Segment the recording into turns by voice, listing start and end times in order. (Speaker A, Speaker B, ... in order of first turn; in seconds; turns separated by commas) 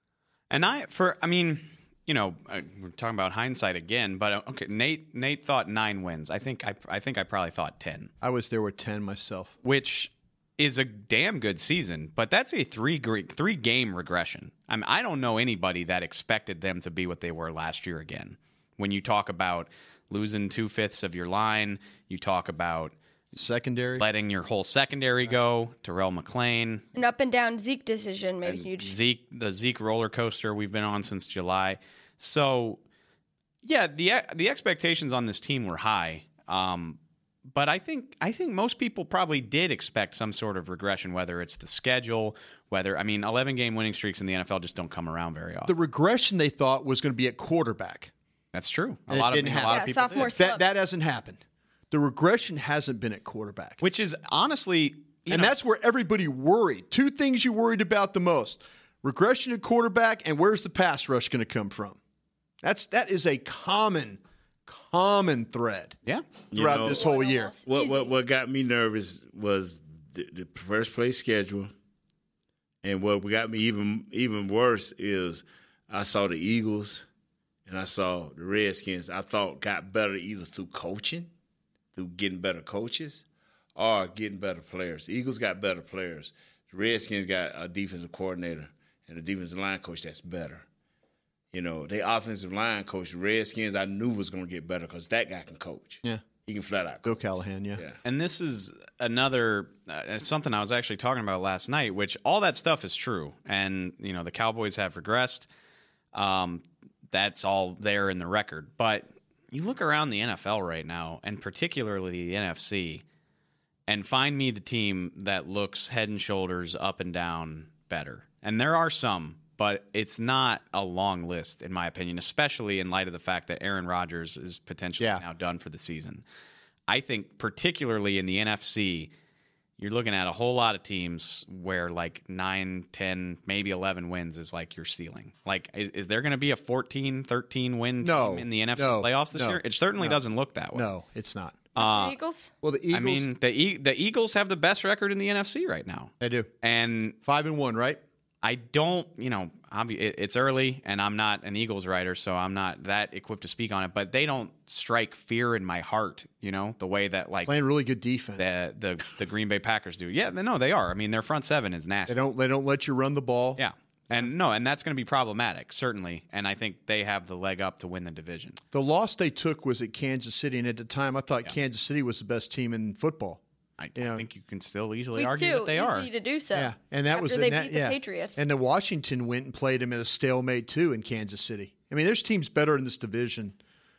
Speaker A: 0.5-8.1, Speaker B: 8.2-9.5, Speaker A: 9.6-22.9, Speaker B: 23.3-24.1, Speaker A: 24.0-26.9, Speaker C: 26.9-28.9, Speaker A: 28.4-32.8, Speaker A: 33.6-37.0, Speaker A: 37.5-45.7, Speaker B: 45.7-48.1, Speaker A: 48.5-50.3, Speaker B: 49.1-53.8, Speaker C: 49.7-50.6, Speaker A: 53.8-55.5, Speaker B: 55.3-62.0, Speaker B: 62.6-66.0, Speaker D: 66.5-67.0, Speaker B: 66.5-67.5, Speaker C: 66.7-68.1, Speaker D: 67.7-71.7, Speaker D: 72.8-77.0, Speaker D: 77.7-81.3, Speaker D: 81.9-83.2, Speaker D: 83.7-90.6, Speaker D: 91.5-97.2, Speaker B: 97.0-97.8, Speaker A: 98.0-105.5, Speaker A: 106.1-113.0, Speaker A: 113.9-126.2, Speaker B: 125.0-125.2, Speaker A: 126.9-129.1, Speaker A: 129.8-140.9, Speaker B: 138.0-140.2, Speaker B: 140.7-141.6, Speaker C: 141.8-142.5, Speaker A: 141.8-142.1, Speaker B: 142.6-143.3, Speaker A: 142.9-147.2, Speaker B: 146.2-146.5, Speaker B: 147.2-148.0, Speaker A: 148.4-157.5, Speaker B: 157.4-158.5, Speaker A: 158.4-162.2, Speaker B: 162.1-163.6, Speaker A: 163.6-168.6, Speaker B: 168.7-173.4, Speaker A: 173.8-176.1, Speaker B: 173.9-174.2, Speaker C: 175.2-178.4, Speaker B: 176.5-183.6